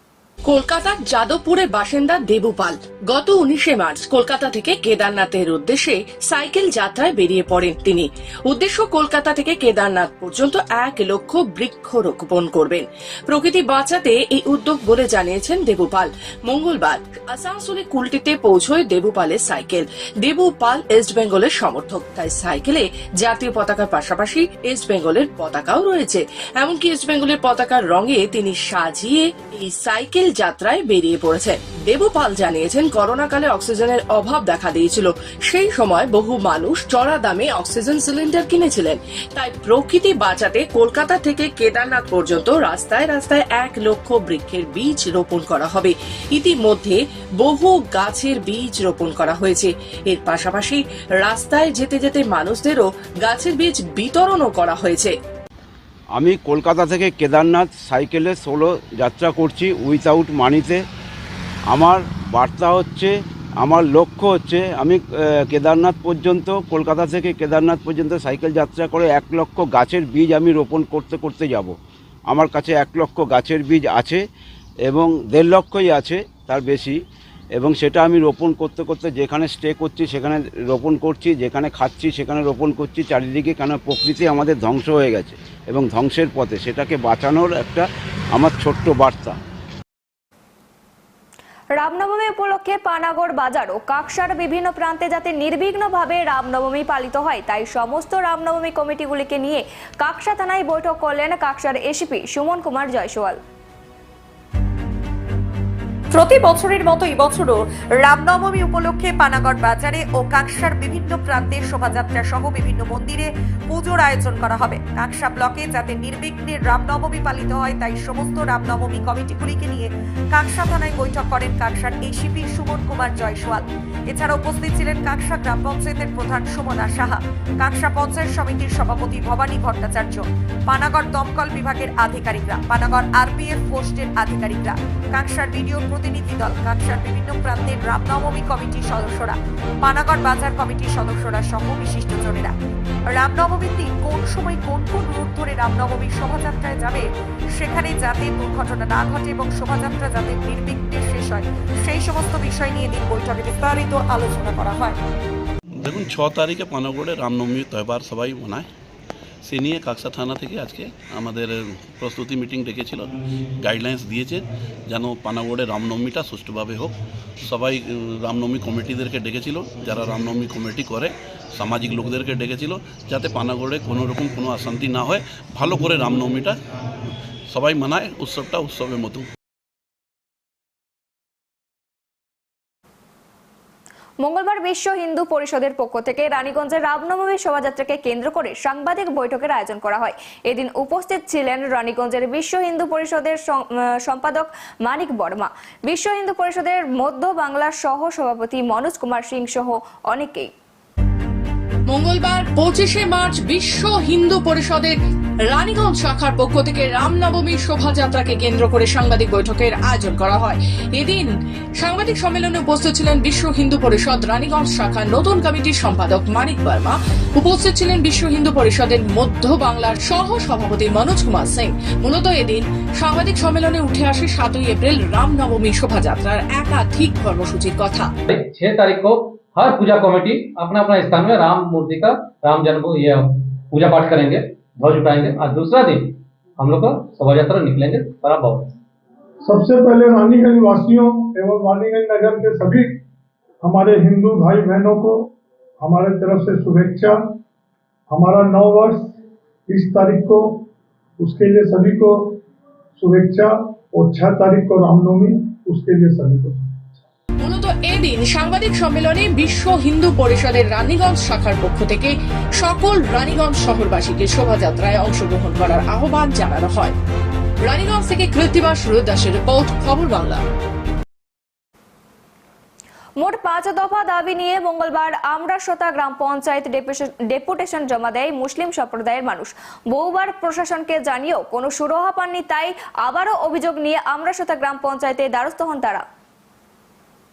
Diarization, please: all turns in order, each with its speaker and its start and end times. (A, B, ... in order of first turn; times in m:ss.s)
0:00.5-0:55.1 A
0:56.2-1:00.8 B
1:01.7-1:11.8 B
1:12.3-1:14.2 B
1:14.9-1:17.0 B
1:17.6-1:29.4 B
1:31.8-1:43.4 C
1:46.1-2:22.6 D
2:23.1-2:27.0 D
2:27.6-2:34.9 D
2:35.8-2:38.7 E
2:39.5-2:56.6 E
2:57.5-2:59.3 E
3:04.2-3:20.5 C
3:21.9-3:25.0 A
3:25.5-3:31.3 A
3:31.8-3:48.1 A
3:48.3-3:58.7 F
3:59.4-4:03.0 G
4:03.6-4:07.2 G
4:08.1-4:09.2 G
4:09.7-4:10.6 G
4:11.2-4:12.4 G
4:13.0-4:16.8 G
4:17.4-4:26.9 A
4:27.6-4:30.4 A
4:33.2-4:46.0 C